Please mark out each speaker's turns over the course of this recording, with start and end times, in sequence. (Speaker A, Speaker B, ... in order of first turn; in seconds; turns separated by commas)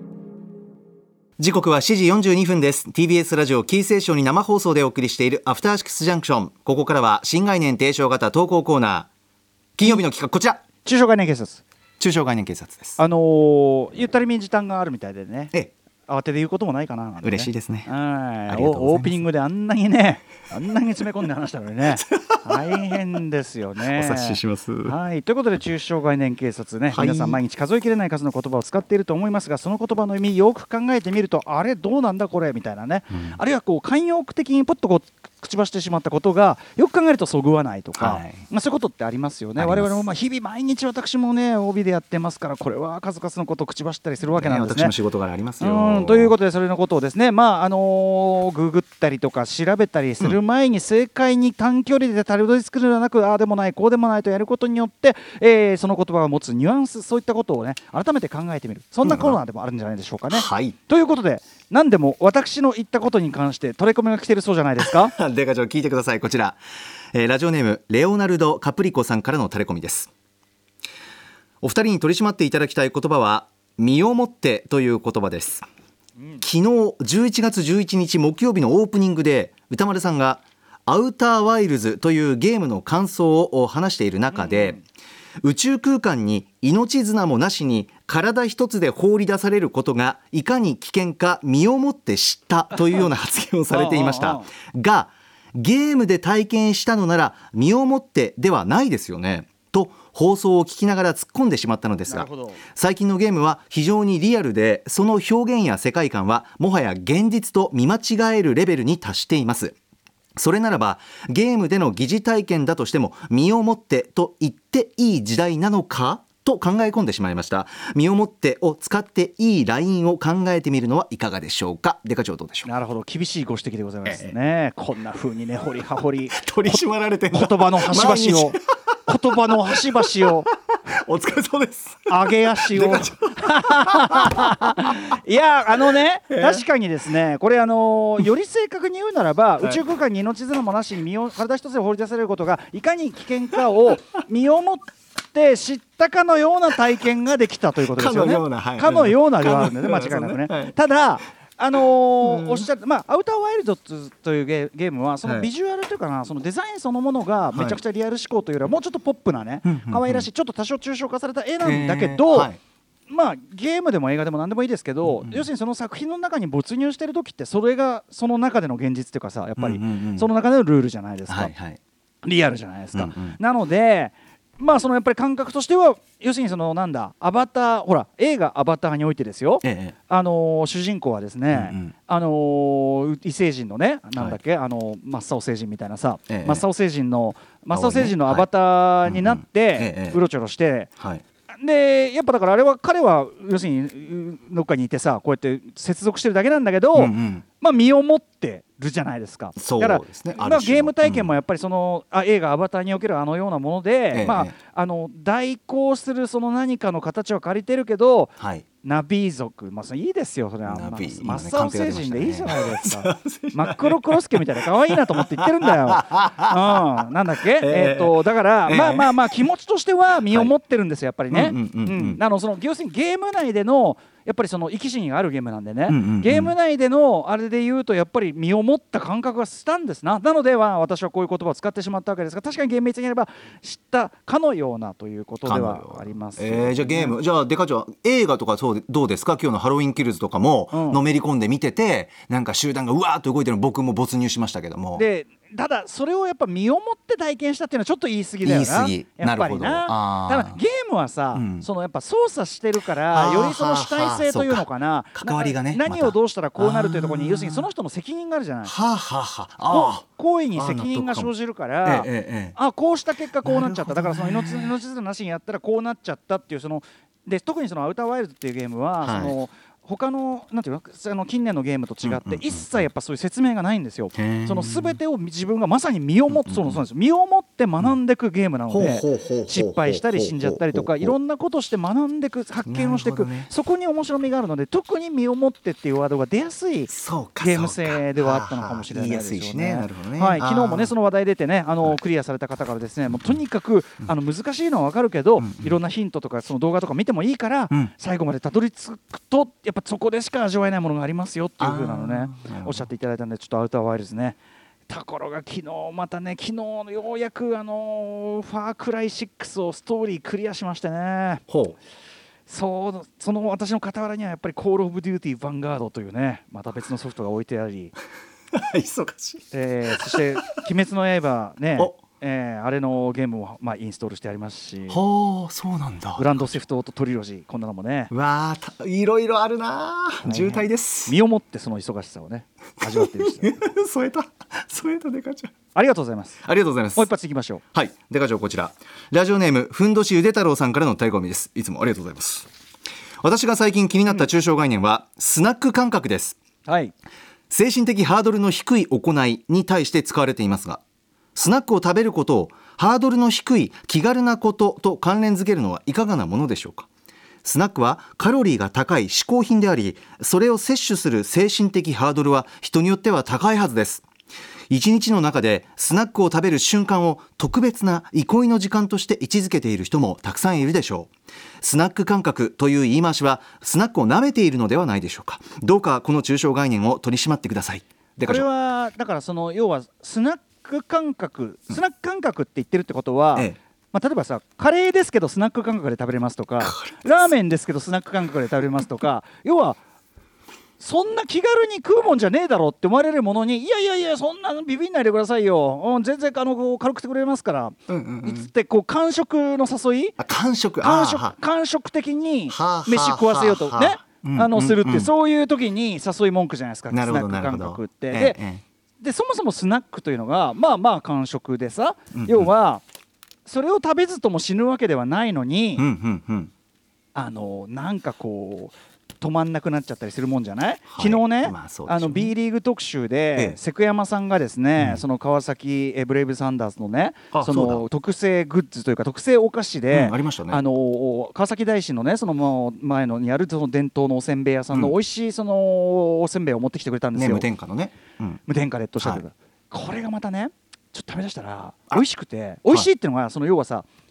Speaker A: 1.4-9.1, Speaker A: 9.8-10.6, Speaker B: 10.8-11.6, Speaker A: 12.0-13.0, Speaker B: 13.0-15.5, Speaker B: 16.1-45.0, Speaker A: 17.2-17.9, Speaker A: 18.5-19.2, Speaker A: 21.9-22.4, Speaker A: 23.9-24.9, Speaker A: 26.9-27.4, Speaker A: 37.9-38.4, Speaker A: 39.6-40.0, Speaker A: 44.3-46.4, Speaker B: 45.6-65.1, Speaker A: 59.0-59.4, Speaker A: 60.3-60.8, Speaker A: 64.8-66.6, Speaker A: 67.1-70.1, Speaker A: 71.6-75.6, Speaker A: 76.4-84.8, Speaker B: 84.3-84.8, Speaker A: 85.4-109.7, Speaker B: 93.7-94.5, Speaker B: 102.1-102.6, Speaker A: 110.4-122.7, Speaker B: 122.6-126.8, Speaker A: 124.0-124.3, Speaker A: 126.3-130.3, Speaker B: 127.3-130.5, Speaker A: 130.9-135.1, Speaker B: 132.1-162.5, Speaker A: 136.3-136.7, Speaker A: 147.8-150.8, Speaker A: 152.2-152.7, Speaker A: 155.2-155.5, Speaker A: 157.5-157.8, Speaker A: 159.6-160.3, Speaker A: 161.6-162.6, Speaker B: 163.1-171.5, Speaker A: 165.0-165.5, Speaker A: 169.6-170.3, Speaker A: 171.3-171.8, Speaker B: 172.2-190.9, Speaker A: 172.9-173.4, Speaker A: 179.6-179.9, Speaker A: 181.5-181.9, Speaker A: 186.3-186.6, Speaker A: 187.7-188.5, Speaker A: 189.0-190.2, Speaker B: 191.6-237.2, Speaker A: 196.9-197.4, Speaker A: 199.6-201.3, Speaker A: 204.1-204.5, Speaker A: 208.4-208.6, Speaker A: 210.7-217.0, Speaker A: 217.6-219.2, Speaker A: 220.3-220.5, Speaker A: 221.3-222.2, Speaker A: 225.9-226.5, Speaker A: 235.4-245.0, Speaker B: 240.7-241.0, Speaker B: 244.9-258.7, Speaker A: 248.4-250.6, Speaker A: 251.3-251.7, Speaker A: 253.1-257.7, Speaker A: 258.6-261.3, Speaker B: 259.7-311.4, Speaker A: 261.8-262.6, Speaker A: 263.4-264.8, Speaker A: 269.0-269.3, Speaker A: 272.0-272.9, Speaker A: 274.1-275.0, Speaker A: 276.3-276.8, Speaker A: 278.7-281.1, Speaker A: 282.6-283.5, Speaker A: 286.9-290.9, Speaker A: 295.4-295.7, Speaker A: 301.6-302.9, Speaker A: 311.5-311.8, Speaker B: 312.5-317.9, Speaker A: 318.5-320.4, Speaker B: 319.5-325.0, Speaker A: 324.9-326.6, Speaker B: 326.2-328.1, Speaker A: 328.1-331.1, Speaker B: 330.2-333.5, Speaker A: 332.8-335.5, Speaker B: 335.7-336.4, Speaker A: 336.4-337.1, Speaker B: 336.9-337.6, Speaker A: 337.7-342.5, Speaker A: 343.2-346.4, Speaker B: 346.6-346.9, Speaker A: 347.5-350.8, Speaker A: 351.4-356.9, Speaker A: 357.4-364.0, Speaker A: 364.7-378.4, Speaker B: 378.2-389.8, Speaker A: 386.6-387.0, Speaker B: 390.8-400.2, Speaker A: 397.9-398.5, Speaker A: 400.2-401.4, Speaker B: 400.8-408.4, Speaker A: 402.5-405.1, Speaker A: 406.9-408.6, Speaker B: 409.0-412.8, Speaker A: 412.1-412.5, Speaker B: 413.4-415.9, Speaker A: 415.8-416.5, Speaker B: 417.1-437.5, Speaker A: 420.9-422.3, Speaker A: 424.8-425.0, Speaker A: 427.3-427.8, Speaker A: 429.9-430.6, Speaker A: 437.1-438.4, Speaker B: 438.4-443.9, Speaker A: 439.0-439.2